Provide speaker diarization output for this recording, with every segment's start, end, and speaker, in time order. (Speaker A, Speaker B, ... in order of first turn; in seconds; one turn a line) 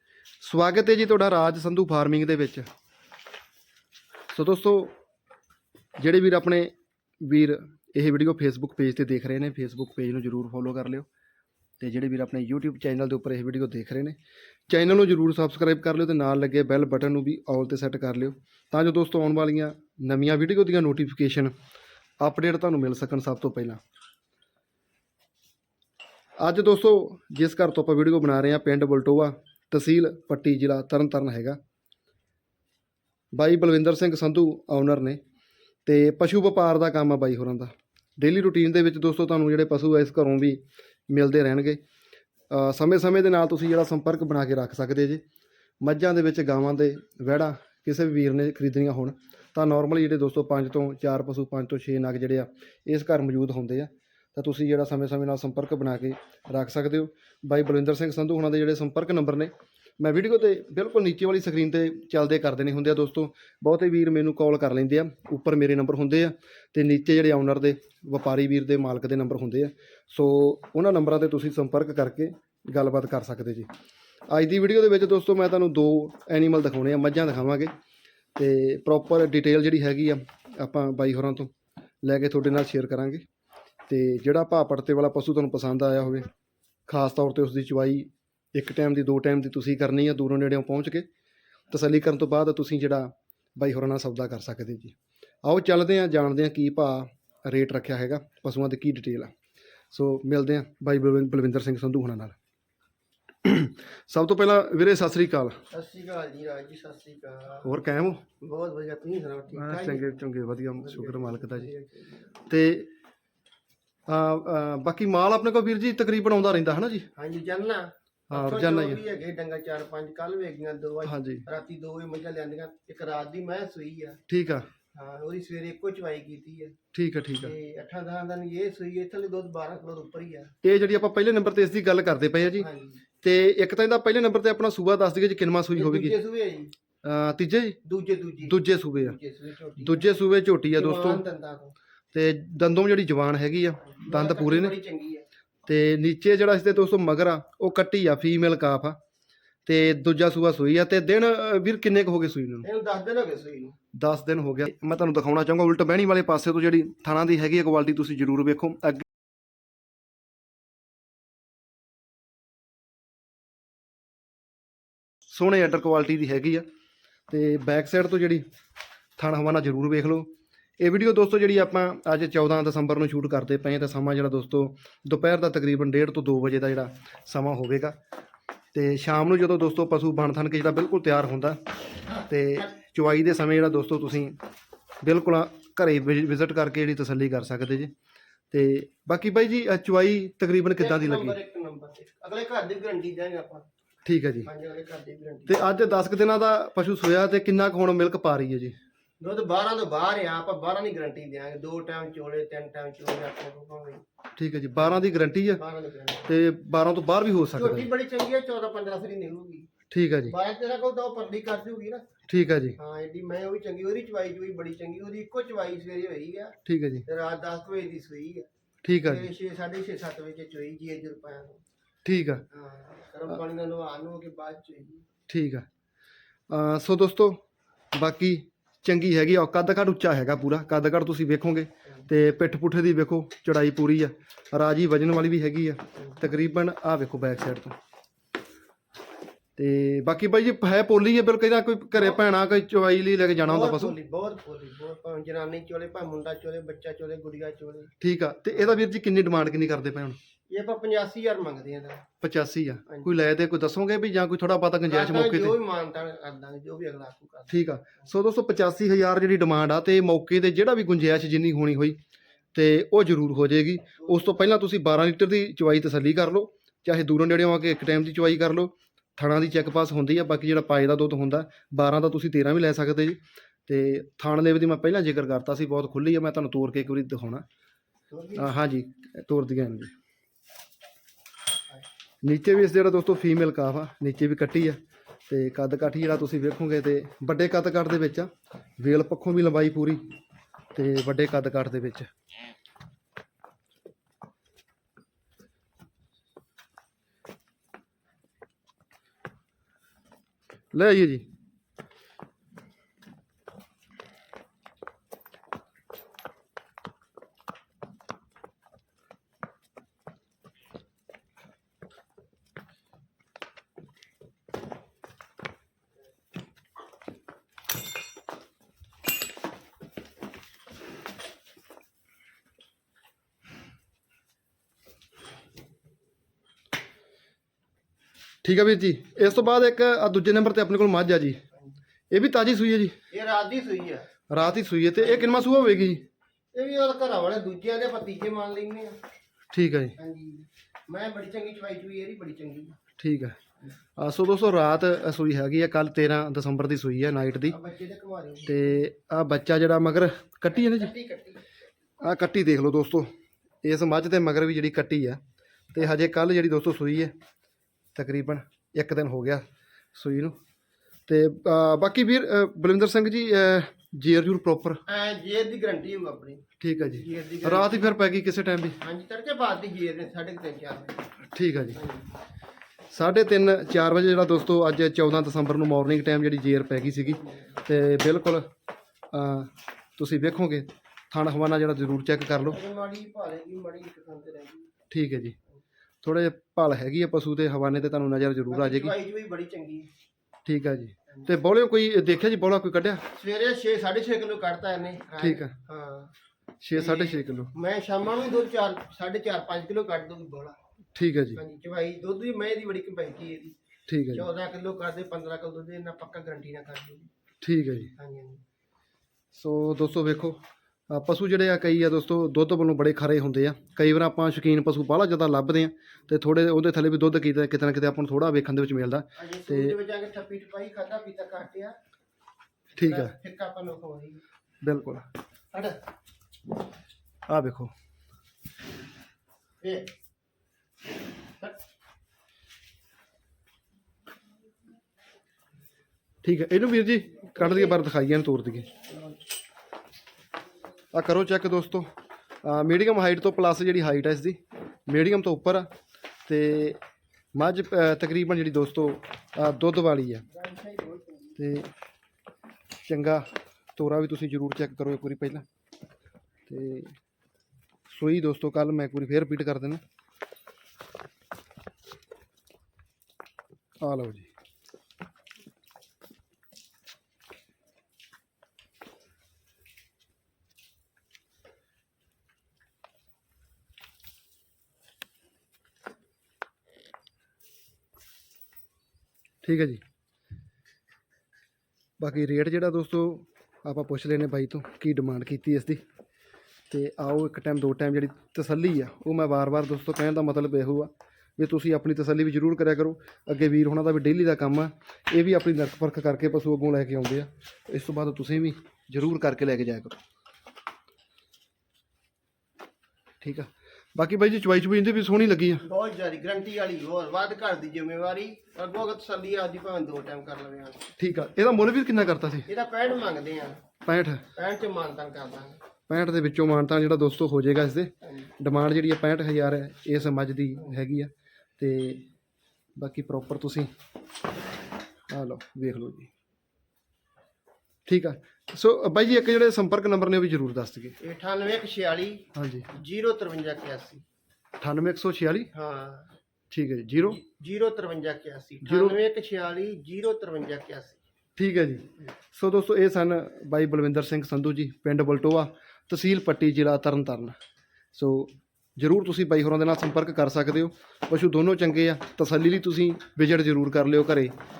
Speaker A: 0.4-2.7
Speaker A: 4.3-4.9
Speaker A: 6.0-11.1
Speaker A: 11.8-14.2
Speaker A: 14.7-21.5
Speaker A: 22.2-23.8
Speaker A: 26.4-31.6
Speaker A: 33.3-35.2
Speaker A: 35.9-41.8
Speaker A: 42.5-45.2
Speaker A: 45.8-73.7
Speaker A: 74.3-77.7
Speaker A: 78.3-81.5
Speaker A: 82.0-83.2
Speaker A: 83.9-86.3
Speaker A: 86.9-91.1
Speaker A: 91.7-99.3
Speaker A: 99.9-102.4
Speaker A: 103.4-105.6
Speaker B: 105.7-107.7
Speaker A: 107.6-108.2
Speaker B: 108.4-110.0
Speaker A: 109.5-111.7
Speaker B: 110.8-112.1
Speaker A: 112.5-112.9
Speaker A: 114.1-117.1
Speaker B: 117.2-124.2
Speaker A: 118.3-119.0
Speaker A: 121.0-121.5
Speaker A: 124.3-124.7
Speaker B: 124.9-126.8
Speaker A: 126.9-127.5
Speaker B: 127.4-130.5
Speaker A: 130.6-132.7
Speaker B: 132.6-133.0
Speaker A: 133.2-136.2
Speaker B: 135.8-136.7
Speaker A: 137.0-137.8
Speaker B: 137.8-140.1
Speaker A: 138.5-139.2
Speaker A: 139.8-141.2
Speaker B: 140.8-141.7
Speaker A: 142.1-144.7
Speaker B: 144.0-145.2
Speaker A: 145.7-149.0
Speaker A: 149.7-152.7
Speaker B: 152.6-153.8
Speaker A: 153.9-159.1
Speaker A: 165.3-166.7
Speaker A: 167.3-168.4
Speaker A: 169.2-170.3
Speaker A: 170.8-178.0
Speaker A: 178.7-181.6
Speaker A: 182.2-184.4
Speaker A: 185.0-187.9
Speaker A: 188.5-191.4
Speaker B: 190.8-193.7
Speaker A: 194.1-194.5
Speaker B: 194.4-195.7
Speaker A: 195.5-198.8
Speaker B: 199.2-204.0
Speaker A: 204.4-205.6
Speaker B: 205.6-206.3
Speaker A: 206.3-207.9
Speaker B: 207.6-209.7
Speaker A: 209.9-210.3
Speaker B: 210.3-212.1
Speaker A: 212.3-212.8
Speaker B: 212.8-218.5
Speaker A: 216.7-217.1
Speaker A: 218.8-219.3
Speaker B: 219.0-221.6
Speaker A: 222.1-222.4
Speaker B: 222.5-225.1
Speaker A: 225.3-225.7
Speaker A: 226.5-227.4
Speaker A: 227.9-237.8
Speaker A: 239.6-243.9
Speaker B: 243.4-247.9
Speaker A: 248.0-250.2
Speaker B: 250.5-252.1
Speaker A: 252.2-255.6
Speaker B: 254.9-257.6
Speaker A: 257.5-262.0
Speaker A: 262.5-277.4
Speaker B: 264.1-264.4
Speaker B: 278.1-278.5
Speaker A: 278.4-279.9
Speaker A: 282.2-290.1
Speaker A: 290.7-292.1
Speaker A: 300.7-301.2
Speaker A: 328.4-331.4
Speaker A: 332.1-333.0
Speaker B: 333.1-334.1
Speaker A: 334.3-336.0
Speaker B: 335.0-335.4
Speaker B: 336.5-339.0
Speaker A: 339.5-339.9
Speaker B: 340.0-342.8
Speaker A: 343.0-343.4
Speaker A: 344.0-347.6
Speaker B: 347.5-348.6
Speaker A: 348.4-350.9
Speaker B: 350.6-351.4
Speaker A: 352.0-353.1
Speaker A: 353.6-355.2
Speaker A: 355.7-357.1
Speaker A: 357.9-360.4
Speaker A: 361.1-364.8
Speaker B: 364.9-367.8
Speaker A: 366.6-368.8
Speaker B: 368.8-371.1
Speaker A: 371.3-371.8
Speaker B: 371.7-372.1
Speaker A: 372.9-378.5
Speaker A: 379.1-382.6
Speaker B: 382.4-384.7
Speaker A: 384.9-385.4
Speaker A: 386.0-388.9
Speaker B: 388.5-389.9
Speaker A: 390.5-393.1
Speaker B: 393.1-396.1
Speaker A: 395.2-395.6
Speaker A: 396.6-397.5
Speaker B: 396.7-400.6
Speaker A: 400.9-401.4
Speaker B: 401.4-403.6
Speaker A: 403.9-404.3
Speaker B: 404.1-407.1
Speaker A: 407.4-407.9
Speaker B: 408.0-408.4
Speaker A: 409.3-419.8
Speaker B: 419.2-421.8
Speaker A: 422.8-423.1
Speaker B: 422.8-424.2
Speaker A: 424.6-425.1
Speaker B: 425.5-425.8
Speaker A: 427.3-427.7
Speaker B: 429.6-429.9
Speaker A: 436.2-438.7
Speaker B: 437.4-437.8
Speaker A: 440.9-441.9
Speaker A: 442.4-445.7
Speaker A: 446.3-446.8
Speaker A: 447.4-450.3
Speaker B: 450.3-451.4
Speaker A: 451.4-451.7
Speaker A: 452.9-455.4
Speaker A: 456.5-456.9
Speaker A: 457.9-459.8
Speaker A: 463.8-464.3
Speaker A: 479.4-479.8
Speaker A: 482.0-485.8
Speaker A: 486.7-500.0
Speaker A: 503.2-505.6
Speaker B: 505.6-510.9
Speaker A: 511.0-512.5
Speaker B: 512.5-513.6
Speaker A: 513.9-514.3
Speaker B: 514.4-515.6
Speaker A: 515.9-522.0
Speaker A: 522.8-523.7
Speaker A: 525.1-526.1
Speaker A: 527.9-531.0
Speaker B: 531.0-534.0
Speaker A: 532.4-532.7
Speaker A: 534.6-535.5
Speaker B: 535.5-536.1
Speaker A: 536.5-537.2
Speaker B: 537.1-541.0
Speaker A: 538.6-539.0
Speaker A: 541.4-547.4
Speaker A: 547.9-554.4